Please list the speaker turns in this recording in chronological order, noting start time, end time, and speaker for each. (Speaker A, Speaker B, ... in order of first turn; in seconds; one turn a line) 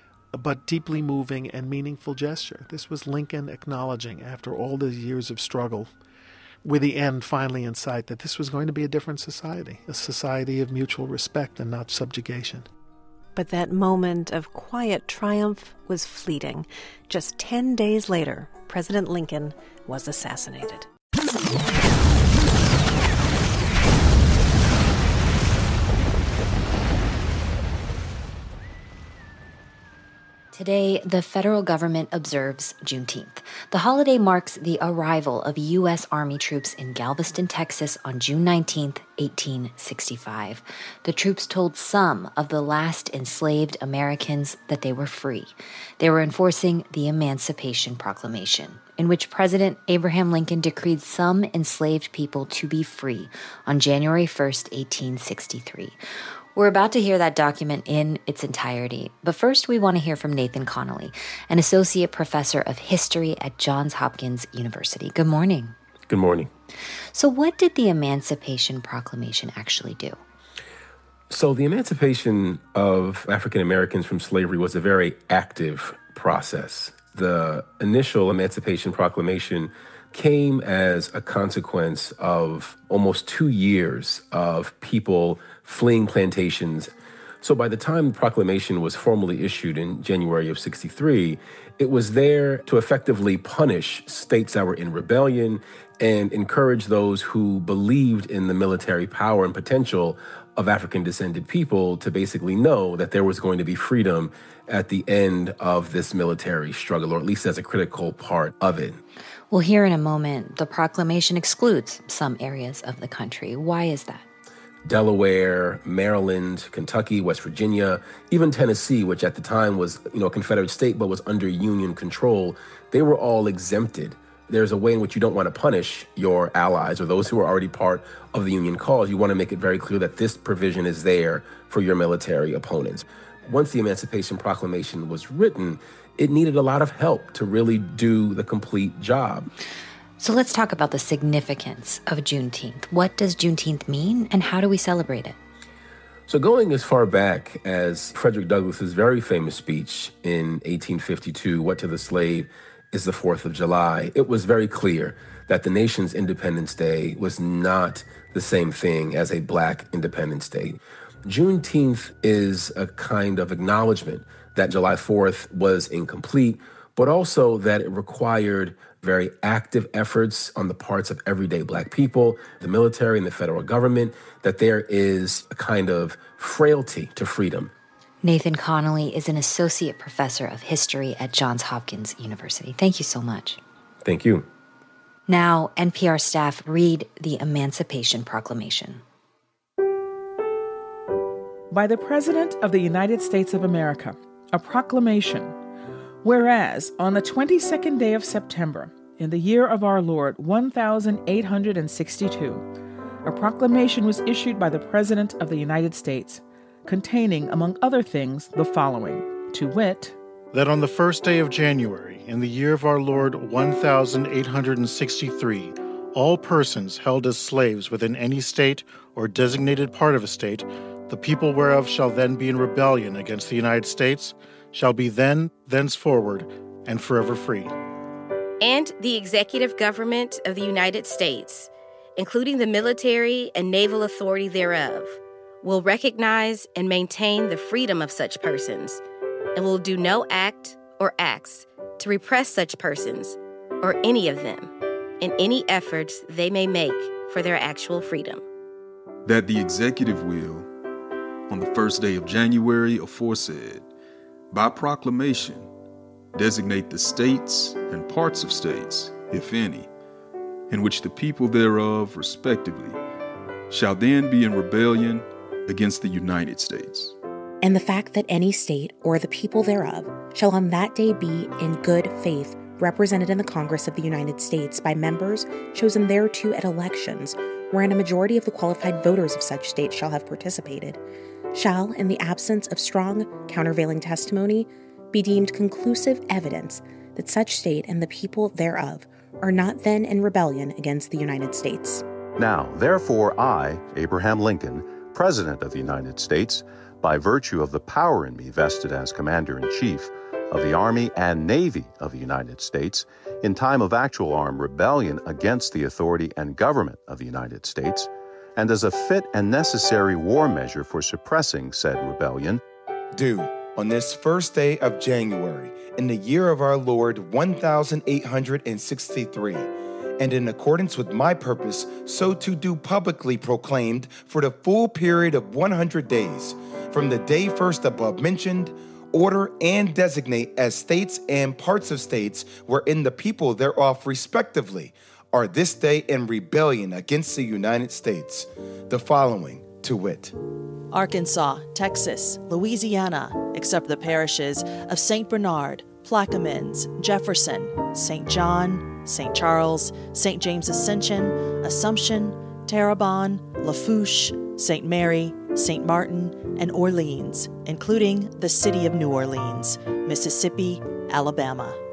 Speaker A: 0.3-5.9
Speaker A: 6.6-12.7
Speaker B: 13.3-20.9
Speaker C: 30.5-56.0
Speaker C: 56.5-65.7
Speaker D: 66.1-66.5
Speaker C: 67.1-70.2
Speaker D: 71.3-109.0
Speaker C: 109.5-114.2
Speaker D: 114.8-139.5
Speaker C: 140.2-145.3
Speaker D: 146.3-177.7
Speaker C: 178.2-183.6
Speaker D: 184.0-184.4
Speaker C: 185.3-189.0
Speaker E: 191.7-195.6
Speaker E: 196.2-202.7
Speaker E: 203.2-210.1
Speaker F: 210.5-227.7
Speaker G: 228.6-239.0
Speaker G: 239.5-248.4
Speaker H: 249.2-250.7
Speaker H: 251.5-253.9
Speaker H: 254.5-255.7
Speaker H: 256.3-259.9
Speaker H: 260.7-263.0
Speaker H: 263.7-267.1
Speaker I: 267.6-281.0
Speaker I: 281.5-292.0
Speaker J: 292.4-312.6
Speaker K: 313.1-340.3
Speaker L: 340.9-361.8